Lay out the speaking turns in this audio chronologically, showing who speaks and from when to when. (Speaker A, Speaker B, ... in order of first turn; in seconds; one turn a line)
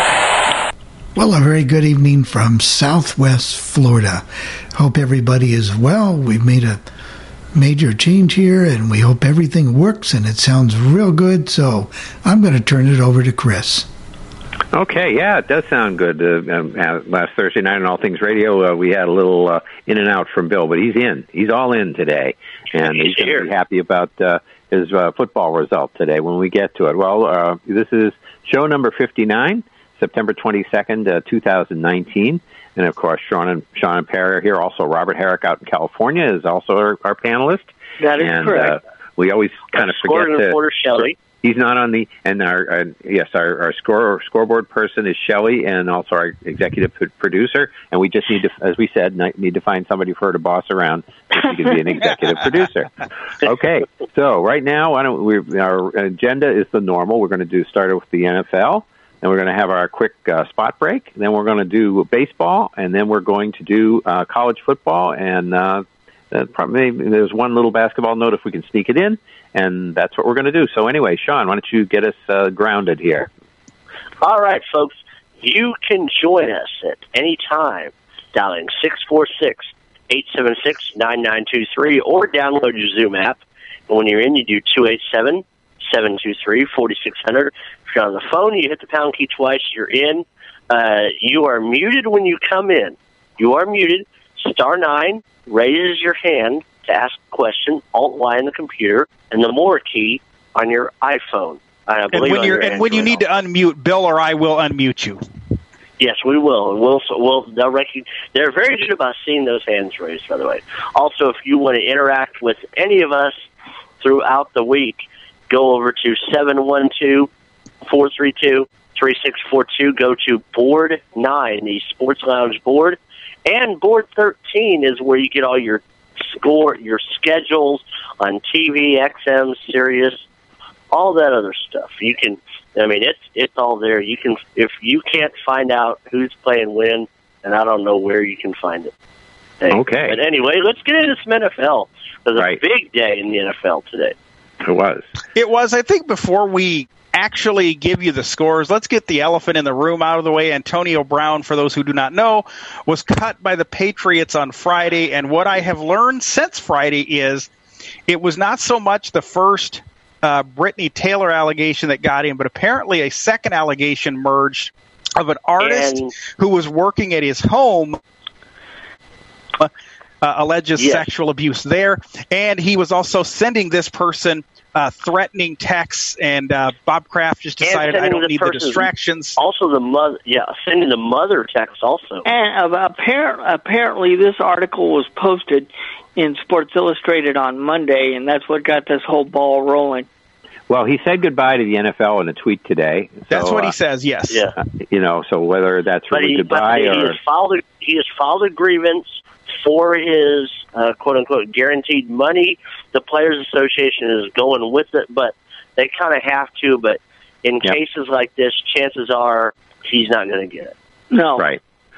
Speaker A: 1.1-6.8
Speaker A: 7.5-13.9
Speaker B: 14.7-40.6
Speaker C: 22.8-23.5
Speaker D: 38.0-38.8
Speaker C: 39.7-41.1
Speaker B: 41.4-52.9
Speaker B: 53.4-73.3
Speaker C: 74.2-103.2
Speaker E: 102.1-105.2
Speaker C: 106.0-113.4
Speaker C: 114.0-117.3
Speaker C: 117.8-130.2
Speaker C: 130.9-138.9
Speaker C: 139.6-144.2
Speaker B: 139.7-140.2
Speaker B: 144.6-145.1
Speaker E: 145.3-157.5
Speaker E: 158.1-168.0
Speaker C: 165.6-166.1
Speaker E: 170.2-179.4
Speaker C: 170.8-171.1
Speaker C: 177.6-182.2
Speaker D: 182.2-190.1
Speaker B: 190.7-193.7
Speaker E: 193.3-194.5
Speaker C: 194.3-194.6
Speaker B: 194.9-197.2
Speaker C: 196.1-210.7
Speaker D: 211.1-211.4